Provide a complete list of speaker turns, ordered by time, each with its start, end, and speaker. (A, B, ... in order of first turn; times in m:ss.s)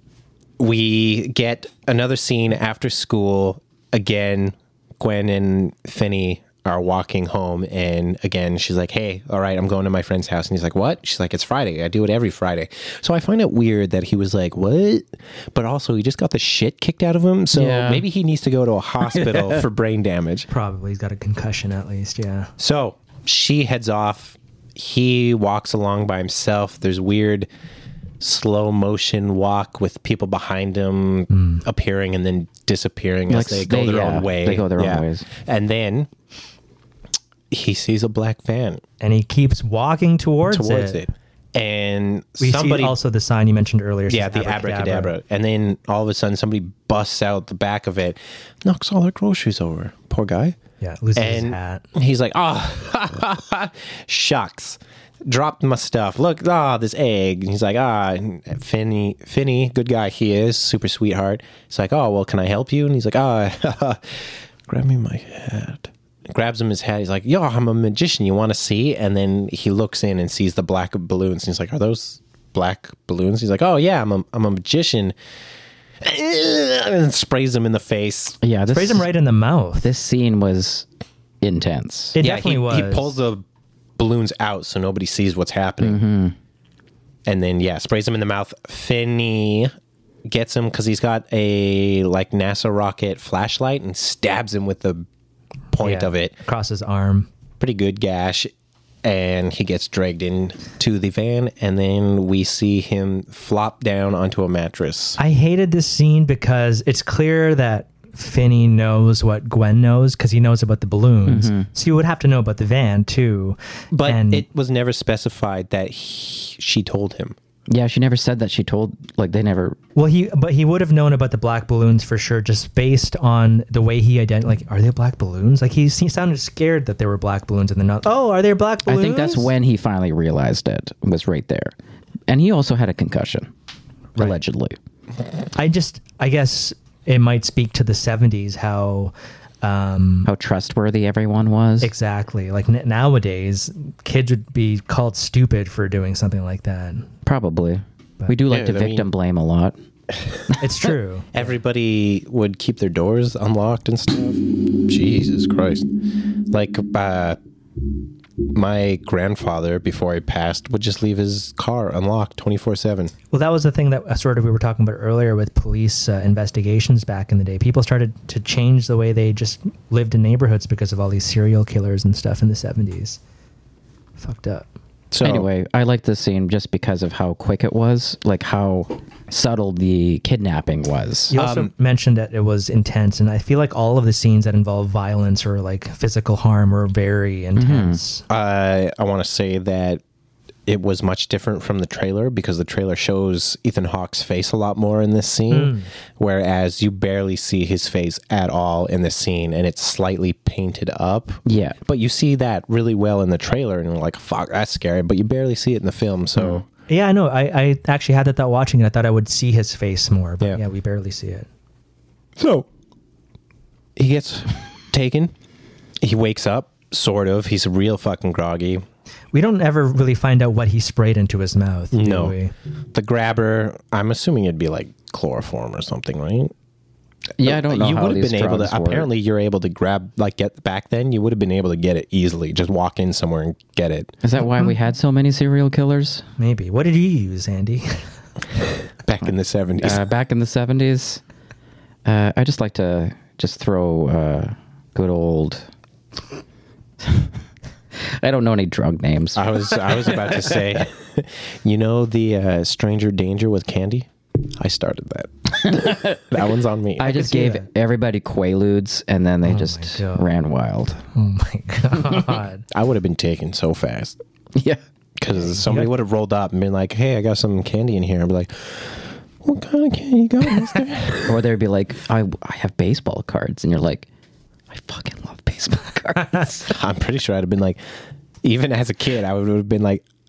0:00.6-0:20.5 A
0:17.5-0:18.0 B
0:19.1-0:19.5 B
0:20.5-0:22.5 C
0:22.6-0:27.5 A
0:28.2-0:36.1 A
0:31.3-0:31.6 C
0:33.3-0:35.3 B
0:37.5-0:38.8 A
0:39.0-0:41.1 C
0:40.5-0:43.0 A
0:42.4-0:45.1 C
0:44.1-0:50.6 A
0:50.8-0:51.8 C
0:51.2-1:15.2 A
1:16.0-1:18.4 A
1:18.4-1:19.1 B
1:18.7-1:19.9 C
1:19.8-1:20.9 B
1:21.4-1:22.2 B
1:22.1-1:23.2 C
1:22.2-1:23.4 A
1:24.0-1:26.0 A
1:25.8-1:26.4 B
1:27.3-1:29.7 A
1:30.3-1:35.1 A
1:35.7-1:36.4 A
1:35.8-1:37.3 C
1:37.6-1:38.5 A
1:39.0-1:45.2 A
1:45.2-1:54.5 C
1:51.3-1:51.7 B
1:53.9-1:57.4 A
1:57.7-1:59.8 B
2:00.0-2:09.5 C
2:08.9-2:11.7 B
2:12.3-2:13.5 B
2:14.2-2:14.8 B
2:15.6-2:20.3 C
2:20.2-2:21.9 B
2:21.8-2:27.1 C
2:27.2-2:29.8 B
2:28.5-2:29.1 A
2:30.6-2:31.5 C
2:31.3-2:35.9 A
2:36.5-2:37.4 A
2:38.5-2:43.1 A
2:43.3-2:53.2 C
2:54.2-2:54.7 C
2:55.1-2:55.5 A
2:55.2-3:01.4 B
3:01.3-3:08.2 C
3:01.3-3:01.7 A
3:07.6-3:08.0 B
3:08.3-3:10.0 A
3:10.7-3:26.7 A
3:15.5-3:15.9 C
3:21.5-3:21.8 B
3:26.4-3:26.6 B
3:26.9-3:31.5 C
3:32.4-3:32.7 A
3:34.0-3:35.3 A
3:36.0-3:38.8 A
3:39.3-3:42.5 C
3:41.9-3:42.4 A
3:42.9-3:46.5 A
3:47.4-3:54.2 A
3:47.4-3:49.1 B
3:54.2-3:56.2 B
3:54.4-3:54.8 C
3:56.4-3:58.1 C
3:59.0-4:00.0 A
3:59.8-4:01.2 B
4:02.0-4:05.7 B
4:07.0-4:07.3 B
4:08.0-4:10.8 B
4:09.4-4:17.1 A
4:15.7-4:16.2 B
4:17.0-4:21.0 B
4:17.0-4:17.7 C
4:19.4-4:20.3 C
4:21.1-4:22.6 C
4:22.7-4:24.2 A
4:24.6-4:24.8 B
4:25.2-4:31.4 A
4:25.4-4:25.9 C
4:31.3-4:34.1 B
4:34.7-4:36.7 B
4:36.6-4:37.8 A
4:38.4-4:40.0 A